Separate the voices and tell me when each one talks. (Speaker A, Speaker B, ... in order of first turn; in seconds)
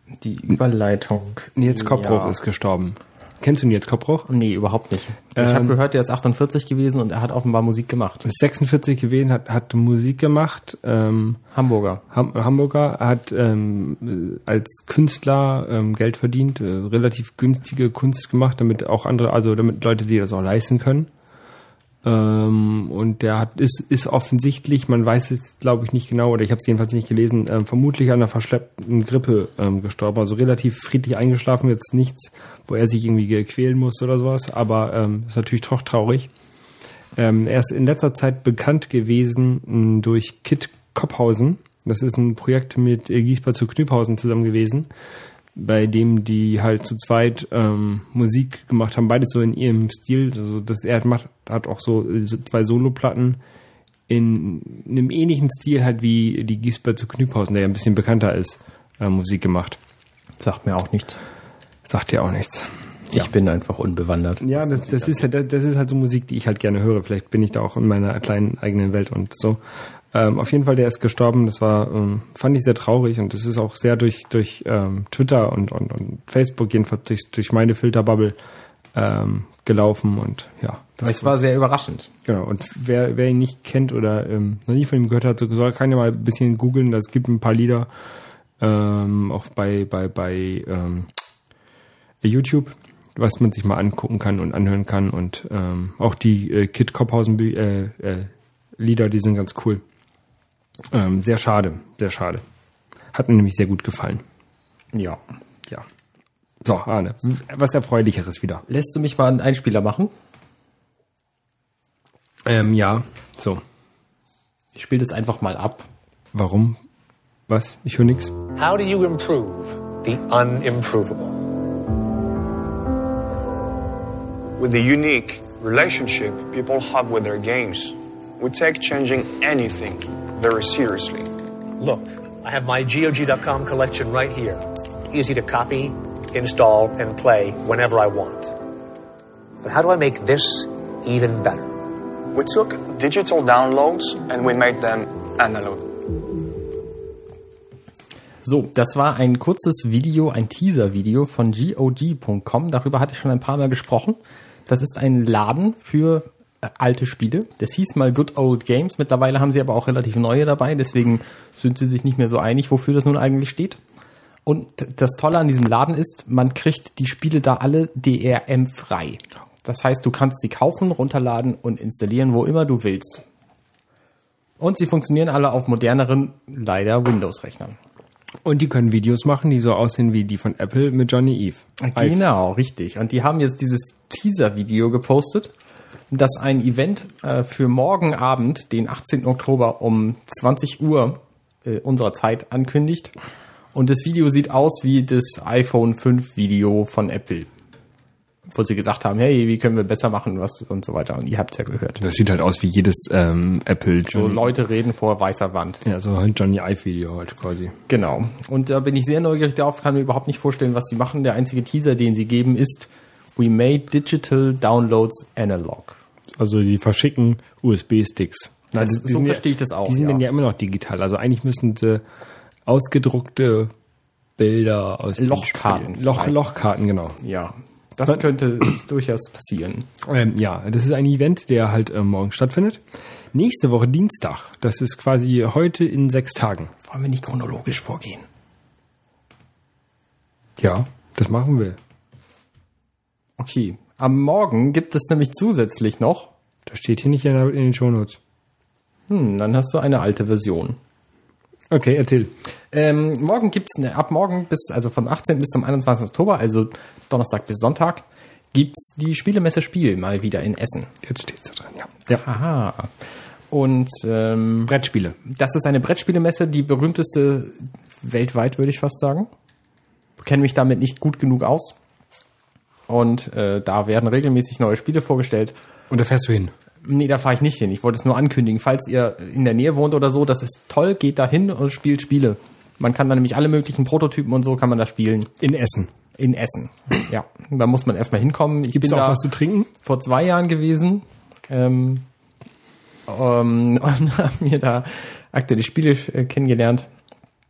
Speaker A: 0.2-2.4, 4.3-8.3, 11.5-12.0, 60.4-61.2, 63.1-65.2, 81.0-82.1, 104.9-105.2, 108.7-110.1, 114.7-115.9, 148.4-163.8, 164.4-173.2, 174.6-177.8, 181.8-185.5, 186.1-193.1, 193.7-197.5, 198.5-202.0, 204.1-205.8, 207.9-216.0, 218.7-220.2, 225.2-226.4, 227.2-229.9, 236.9-238.2, 243.4-246.3, 249.1-250.8, 252.7-260.9, 262.2-264.7, 265.2-269.3, 270.2-271.8, 272.9-275.6, 276.8-285.3, 286.1-289.2, 289.8-292.1, 293.1-296.9
Speaker B: 1.6-4.3, 5.3-5.7, 8.2-11.4, 12.1-21.1, 22.0-36.3, 37.1-44.9, 45.5-53.4, 54.1-59.8, 61.9-63.3, 64.4-69.6, 70.1-78.4, 78.9-81.3, 82.2-87.9, 88.6-91.1, 92.2-99.8, 100.9-102.4, 103.1-104.2, 106.6-108.6, 112.5-113.6, 116.3-116.8, 117.5-118.3, 178.4-182.2, 202.0-204.5, 205.8-207.8, 216.4-222.0, 222.7-223.7, 224.4-227.2, 230.0-232.8, 233.3-236.7, 240.6-241.8, 246.7-248.2, 251.7-252.3, 261.0-262.2, 264.7-265.1, 275.9-276.5, 285.4-285.9, 288.7-289.7
Speaker C: 118.6-121.4, 131.8-138.5, 139.6-141.7
Speaker D: 124.6-131.3, 142.3-145.8